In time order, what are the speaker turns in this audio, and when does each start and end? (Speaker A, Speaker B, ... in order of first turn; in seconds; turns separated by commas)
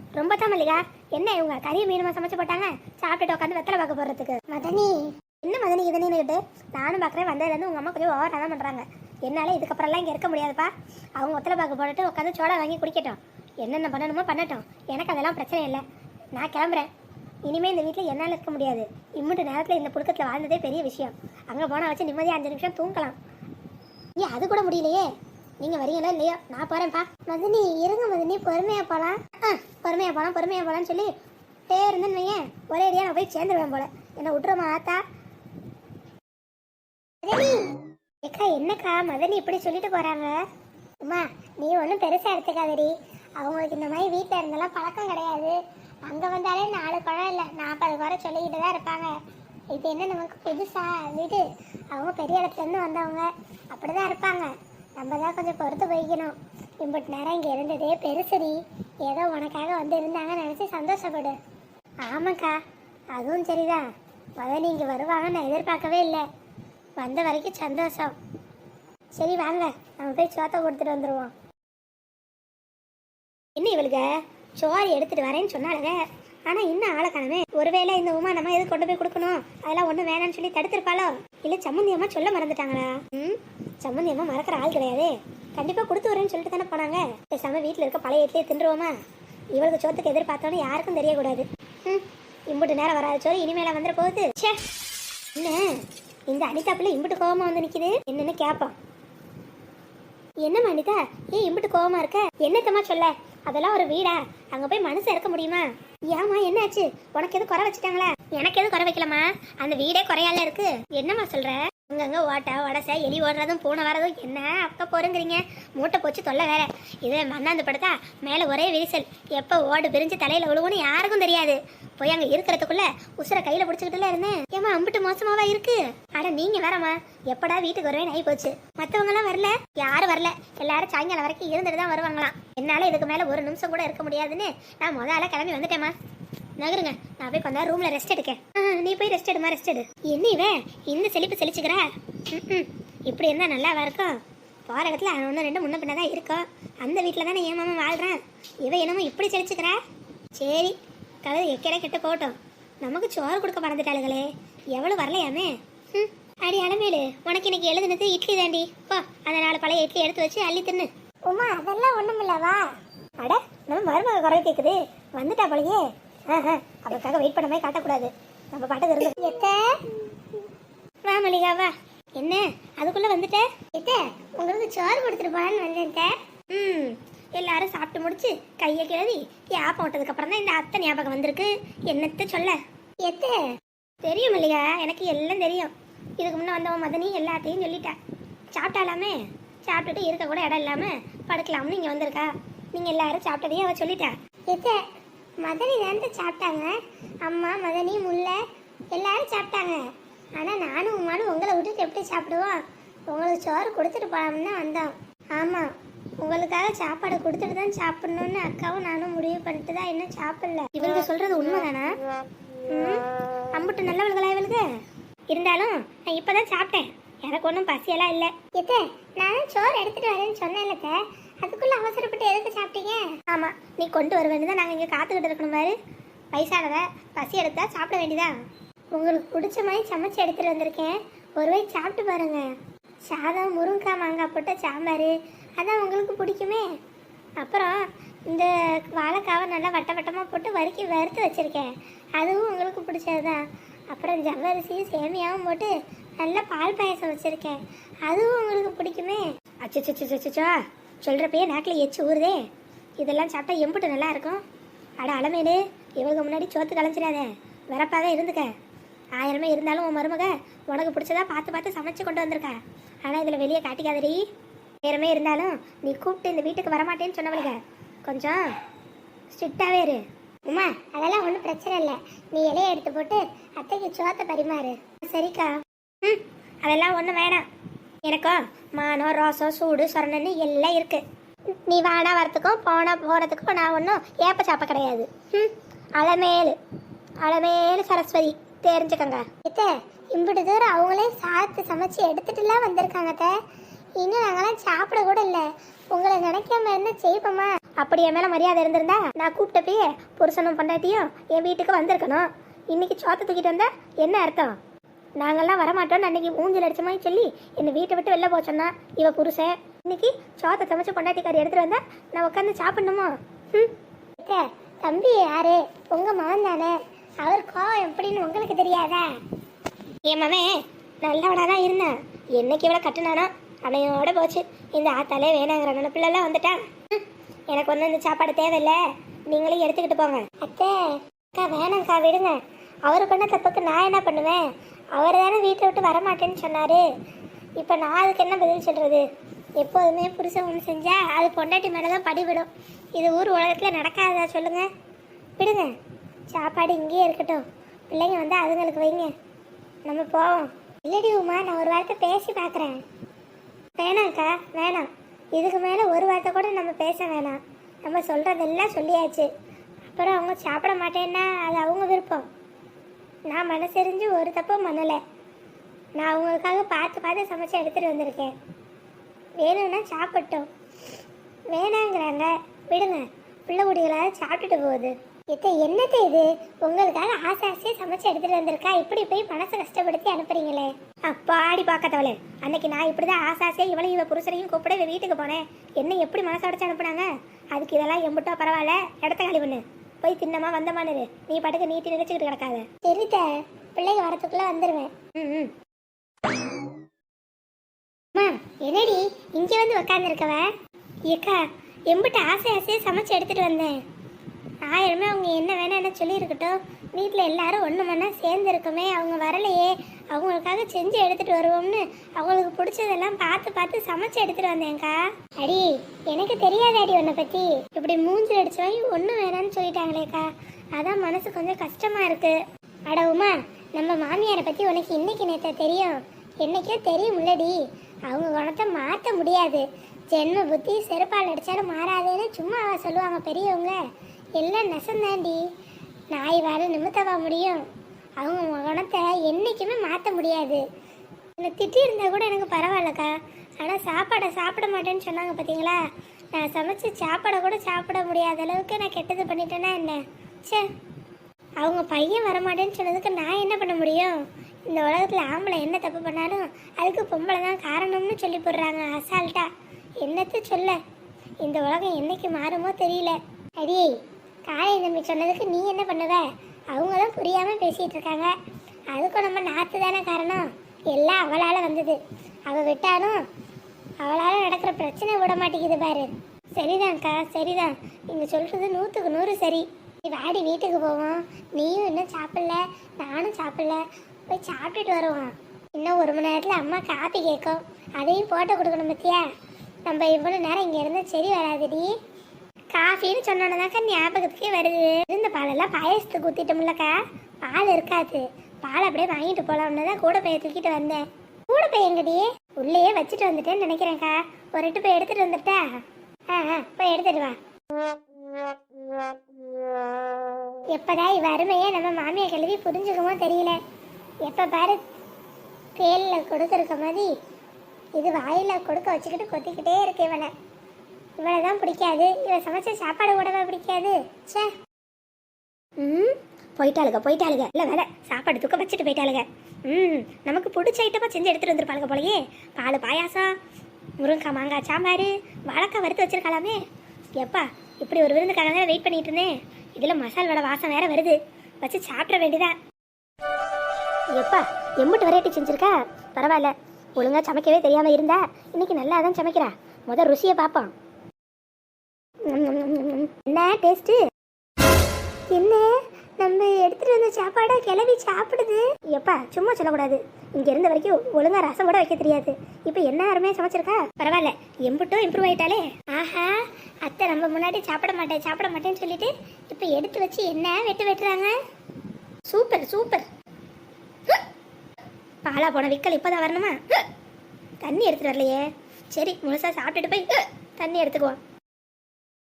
Speaker A: 0.1-16.9, Speaker A: 17.4-23.2, Speaker A: 24.2-25.1, Speaker A: 25.6-31.1, Speaker A: 31.7-35.0, Speaker A: 37.2-40.4, Speaker A: 41.0-49.1, Speaker A: 49.7-61.4, Speaker A: 62.0-62.6, Speaker A: 63.1-63.8, Speaker A: 64.4-66.2, Speaker A: 67.0-68.1, Speaker A: 69.2-71.3, Speaker A: 73.6-89.0, Speaker A: 89.5-94.6, Speaker A: 95.3-98.8, Speaker A: 100.4-135.9, Speaker A: 136.6-149.8, Speaker A: 150.3-162.6, Speaker A: 163.2-169.9, Speaker A: 171.0-183.5, Speaker A: 184.0-187.9, Speaker A: 188.5-194.8, Speaker A: 195.4-198.4, Speaker A: 198.9-199.8, Speaker A: 200.4-212.0, Speaker A: 212.7-214.7, Speaker A: 215.3-225.8, Speaker A: 226.3-228.3, Speaker A: 228.9-232.5, Speaker A: 233.1-236.7, Speaker A: 237.4-252.5, Speaker A: 253.0-254.4, Speaker A: 255.0-258.5, Speaker A: 259.2-264.2, Speaker A: 264.8-268.5, Speaker A: 269.3-277.4, Speaker A: 278.0-281.0, Speaker A: 281.7-286.6, Speaker A: 287.2-293.3, Speaker A: 294.0-304.6, Speaker A: 305.2-319.1, Speaker A: 320.1-336.8, Speaker A: 337.6-339.0, Speaker A: 339.6-344.7, Speaker A: 345.4-345.7, Speaker A: 346.3-349.1, Speaker A: 349.8-352.8, Speaker A: 353.8-359.3, Speaker A: 359.9-362.3, Speaker A: 363.3-365.0, Speaker A: 366.0-368.3, Speaker A: 369.4-370.5, Speaker A: 371.5-395.5, Speaker A: 398.1-400.5, Speaker A: 401.1-403.8, Speaker A: 404.6-433.8, Speaker A: 434.4-435.4, Speaker A: 436.1-437.6, Speaker A: 438.2-440.6, Speaker A: 441.4-445.8, Speaker A: 446.3-450.7, Speaker A: 451.6-459.5, Speaker A: 460.0-460.8, Speaker A: 461.4-468.3, Speaker A: 468.9-473.2, Speaker A: 474.0-489.2, Speaker A: 489.8-491.9, Speaker A: 492.7-505.6, Speaker A: 506.3-507.4, Speaker A: 510.7-513.6, Speaker A: 514.2-514.8, Speaker A: 515.8-517.1, Speaker A: 518.0-520.3, Speaker A: 521.2-524.5, Speaker A: 525.8-533.3, Speaker A: 534.0-536.6, Speaker A: 537.2-542.5, Speaker A: 544.1-550.7, Speaker A: 552.2-554.0, Speaker A: 555.3-571.4, Speaker A: 572.3-573.1, Speaker A: 575.2-576.6, Speaker A: 577.6-581.2